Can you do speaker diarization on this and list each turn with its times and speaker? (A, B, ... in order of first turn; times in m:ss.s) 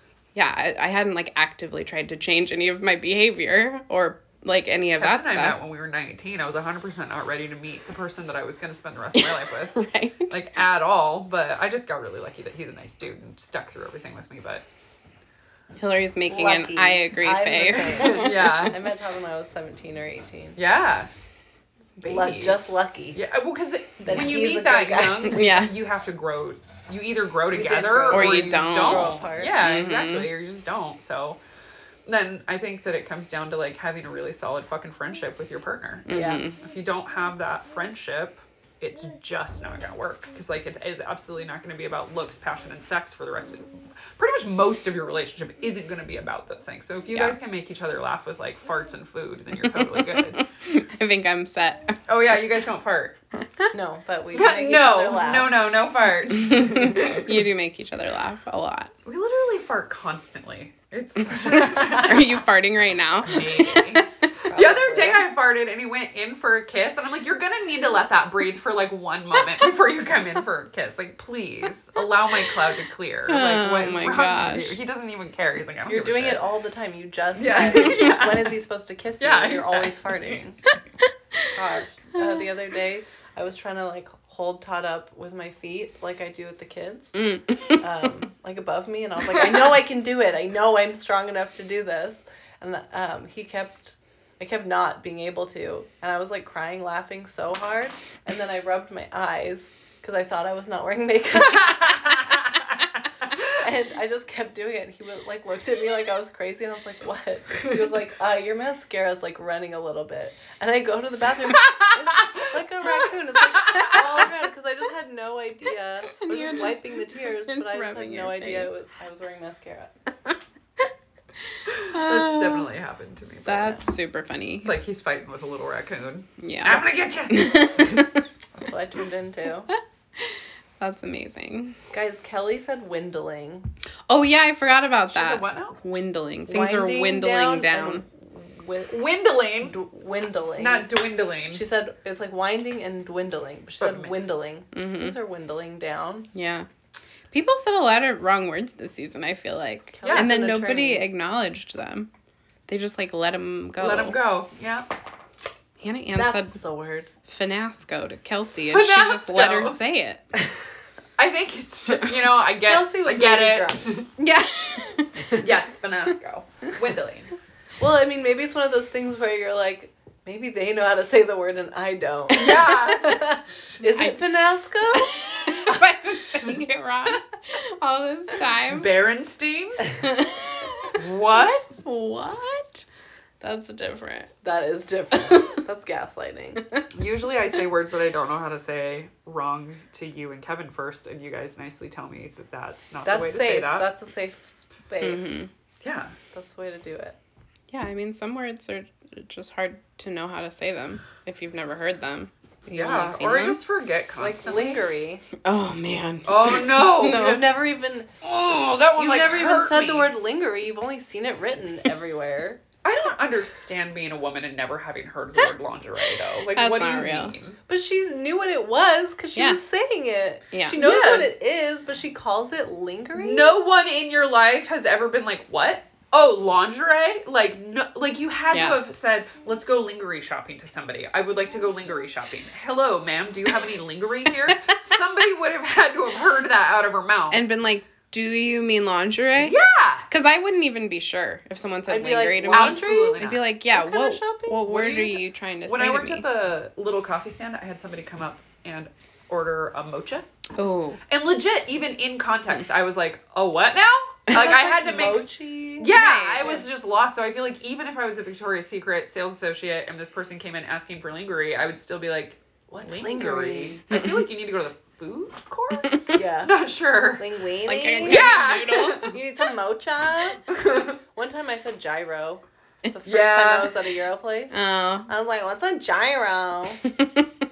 0:00.3-0:05.6 A
0:05.0-0:14.6 B
0:09.2-0:10.4 A
0:15.8-0:18.7 A
0:16.3-0:20.6 C
0:17.9-0:18.8 B
0:20.6-0:21.1 B
0:22.0-0:31.4 B
0:22.0-0:23.2 C
0:24.0-0:25.3 C
0:25.3-0:25.7 A
0:27.5-0:29.6 C
0:28.1-0:30.3 A
0:32.0-0:50.4 B
0:36.1-0:36.6 A
0:36.1-0:36.4 C
0:49.6-0:52.0 A
0:52.1-0:53.1 B
0:53.7-0:55.5 C
0:54.3-0:57.4 B
0:56.5-0:58.9 A
0:59.0-1:02.4 B
1:01.9-1:04.0 A
1:03.2-1:16.4 B
1:04.5-1:05.2 C
1:13.3-1:14.8 A
1:15.9-1:20.6 C
1:17.4-1:18.6 B
1:19.2-1:20.4 B
1:21.5-1:27.2 C
1:27.1-1:27.8 A
1:27.8-1:42.2 C
1:42.0-1:42.3 B
1:43.6-1:59.9 C
1:51.5-1:52.4 B
1:53.5-1:54.0 B
1:56.2-1:58.7 A
2:01.7-2:03.8 B
2:01.9-2:02.7 A
2:03.4-2:04.7 A
2:04.6-2:08.1 B
2:06.4-2:08.1 A
2:08.5-2:09.7 C
2:09.7-2:11.8 A
2:11.9-2:13.7 C
2:14.1-2:18.0 A
2:15.1-2:15.8 B
2:16.5-2:19.1 C
2:18.9-2:19.8 B
2:19.6-2:20.9 C
2:20.6-2:21.6 B
2:21.5-2:26.3 C
2:23.8-2:24.4 B
2:24.7-2:25.2 A
2:26.3-2:26.7 A
2:27.3-2:32.1 A
2:30.0-2:31.1 C
2:30.0-2:30.3 B
2:32.7-2:34.2 A
2:33.8-2:34.9 B
2:35.8-2:36.6 A
2:36.1-2:37.1 C
2:37.2-2:40.2 A
2:38.7-2:39.8 B
2:41.2-2:44.1 B
2:42.6-2:44.0 C
2:44.2-2:45.4 A
2:45.3-2:47.3 B
2:47.8-2:55.2 C
2:52.3-2:53.3 B
2:55.5-2:58.9 A
2:58.7-2:59.9 B
3:00.0-3:01.0 A
3:01.0-3:01.7 B
3:01.8-3:02.8 A
3:03.4-3:04.3 A
3:04.4-3:06.6 C
3:06.9-3:13.9 B
3:13.0-3:15.4 C
3:15.0-3:15.5 A
3:15.8-3:16.1 B
3:16.3-3:17.2 C
3:17.7-3:23.6 A
3:22.7-3:24.8 B
3:24.2-3:25.2 C
3:25.4-3:27.4 A
3:26.2-3:27.4 B
3:27.0-3:32.6 C
3:28.2-3:30.1 B
3:32.8-3:37.6 B
3:36.5-3:37.3 A
3:37.7-3:43.5 C
3:40.5-3:40.8 A
3:40.7-3:41.3 B
3:43.1-3:57.4 B
3:48.5-3:48.8 A
3:57.3-3:59.6 A
3:59.4-4:00.1 B
4:00.1-4:06.2 A
4:01.9-4:04.6 C
4:02.5-4:03.4 B
4:04.6-4:10.3 B
4:10.6-4:11.0 A
4:11.1-4:15.2 B
4:14.3-4:15.9 C
4:15.8-4:27.3 B
4:15.9-4:16.6 A
4:22.7-4:23.8 C
4:26.1-4:26.5 C
4:27.2-4:28.2 C
4:27.6-4:29.1 A
4:28.0-4:29.1 B
4:29.0-4:30.5 C
4:30.5-4:31.0 B
4:31.1-4:34.6 C
4:33.0-4:33.7 B
4:34.5-4:35.1 A
4:35.1-4:36.8 C
4:36.9-4:37.3 A